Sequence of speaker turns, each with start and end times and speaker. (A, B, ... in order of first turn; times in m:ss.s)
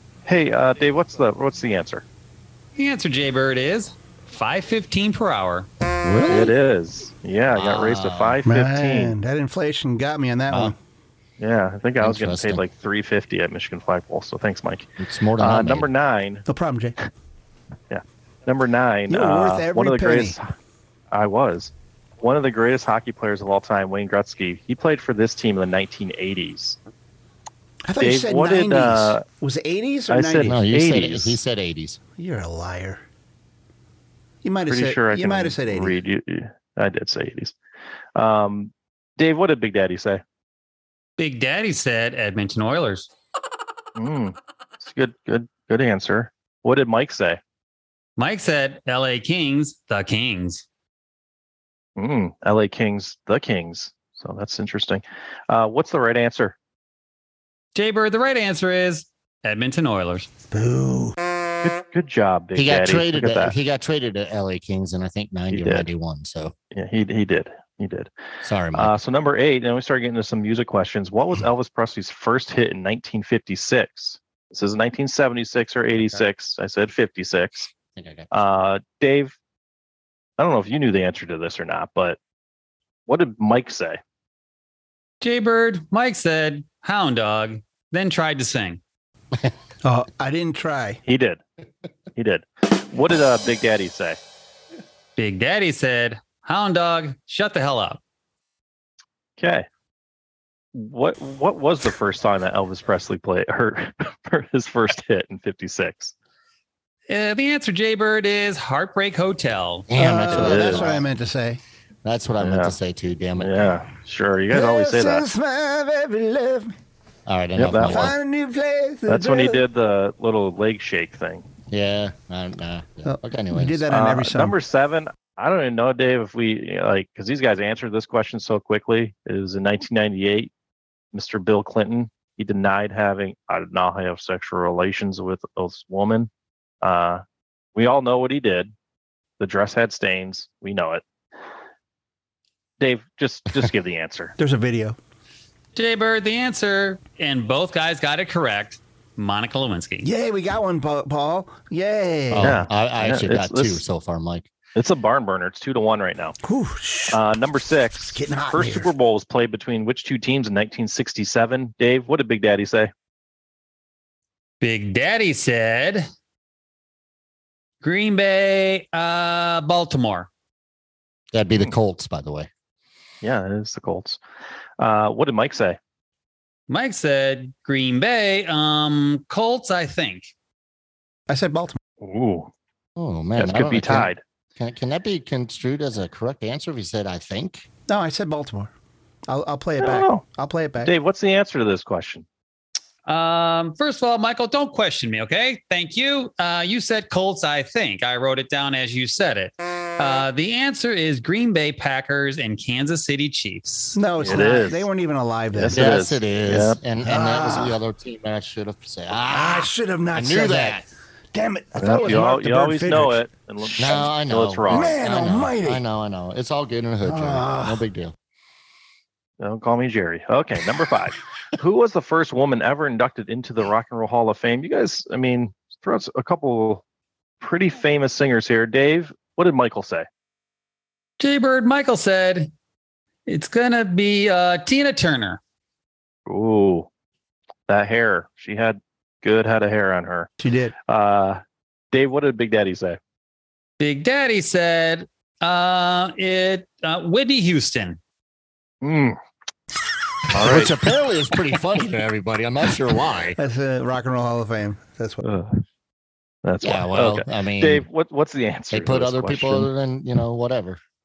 0:00.3-0:02.0 A
0:02.8-0:05.7 B
0:06.0-0:06.5 C
0:06.3-0:09.2 A
0:07.5-0:08.4 C
0:08.4-0:10.8 D
0:11.4-0:16.4 A
0:12.0-0:12.6 C
0:15.0-0:15.9 C
0:16.5-0:17.0 D
0:17.9-0:20.4 A
0:19.1-0:20.4 D
0:21.1-0:26.8 A
0:27.9-0:30.6 D
0:28.0-0:29.2 A
0:30.1-0:31.4 A
0:30.4-0:32.0 C
0:32.2-0:33.0 D
0:34.4-0:36.0 D
0:34.7-0:37.5 A
0:38.2-0:40.2 A
0:41.2-0:43.1 B
0:44.0-0:47.4 A
0:48.2-0:50.6 B
0:52.0-0:56.6 A
0:57.8-1:00.3 B
1:00.5-1:01.2 D
1:01.6-1:03.5 A
1:02.6-1:06.5 C
1:05.5-1:05.9 A
1:06.7-1:08.1 A
1:08.4-1:09.0 C
1:08.7-1:17.7 A
1:17.9-1:18.3 C
1:18.3-1:19.4 A
1:20.4-1:22.2 A
1:23.1-1:24.0 A
1:25.2-1:28.8 B
1:29.8-1:31.0 D
1:31.1-1:31.4 A
1:32.2-1:34.2 A
1:35.2-1:38.0 B
1:39.4-1:39.7 A
1:40.8-1:46.1 A
1:47.1-1:49.9 B
1:49.9-1:51.1 C
1:50.0-1:51.6 D
1:50.3-1:50.9 A
1:52.0-1:53.8 C
1:52.4-1:52.8 A
1:53.4-1:55.2 A
1:54.5-1:56.8 D
1:57.3-1:58.2 C
1:57.6-1:58.2 A
1:57.8-1:59.6 D
1:59.1-2:01.5 A
2:01.7-2:03.9 C
2:03.1-2:04.6 D
2:03.9-2:10.5 A
2:11.1-2:16.3 A
2:16.8-2:17.2 A
2:17.8-2:18.7 A
2:19.4-2:21.0 A
2:22.8-2:24.4 A
2:24.4-2:25.0 D
2:25.8-2:30.1 B
2:30.0-2:32.6 D
2:32.3-2:34.5 C
2:32.4-2:33.8 A
2:34.8-2:36.4 A
2:36.4-2:37.2 D
2:37.1-2:42.9 A
2:38.1-2:38.9 D
2:44.6-2:46.1 B
2:47.8-2:50.3 B
2:51.3-2:52.5 C
2:53.2-2:54.2 A
2:54.8-2:55.8 A
2:56.7-3:00.3 B
3:01.3-3:01.8 D
3:02.0-3:02.5 A
3:03.0-3:07.7 C
3:03.4-3:04.2 A
3:07.9-3:08.7 D
3:09.3-3:10.9 D
3:09.8-3:10.2 A
3:10.8-3:12.3 A
3:13.1-3:24.0 B
3:23.9-3:26.0 D
3:24.2-3:24.9 A
3:25.5-3:26.8 A
3:25.7-3:30.9 C
3:27.0-3:27.8 D
3:29.3-3:33.2 D
3:31.8-3:35.0 A
3:33.8-3:38.2 C
3:34.7-3:35.8 D
3:37.0-3:37.8 D
3:39.4-3:46.8 A
3:47.4-3:50.1 A
3:51.2-3:52.5 B
3:53.3-3:55.4 B
3:56.3-3:56.9 A
3:57.7-4:00.3 A
4:00.4-4:00.8 D
4:00.9-4:01.4 A
4:01.9-4:03.0 A
4:03.8-4:08.0 B
4:08.8-4:09.2 A
4:10.3-4:10.7 A
4:10.3-4:13.4 C
4:13.4-4:15.2 D
4:15.2-4:15.6 A
4:16.4-4:19.7 A
4:16.6-4:17.9 C
4:18.7-4:20.8 C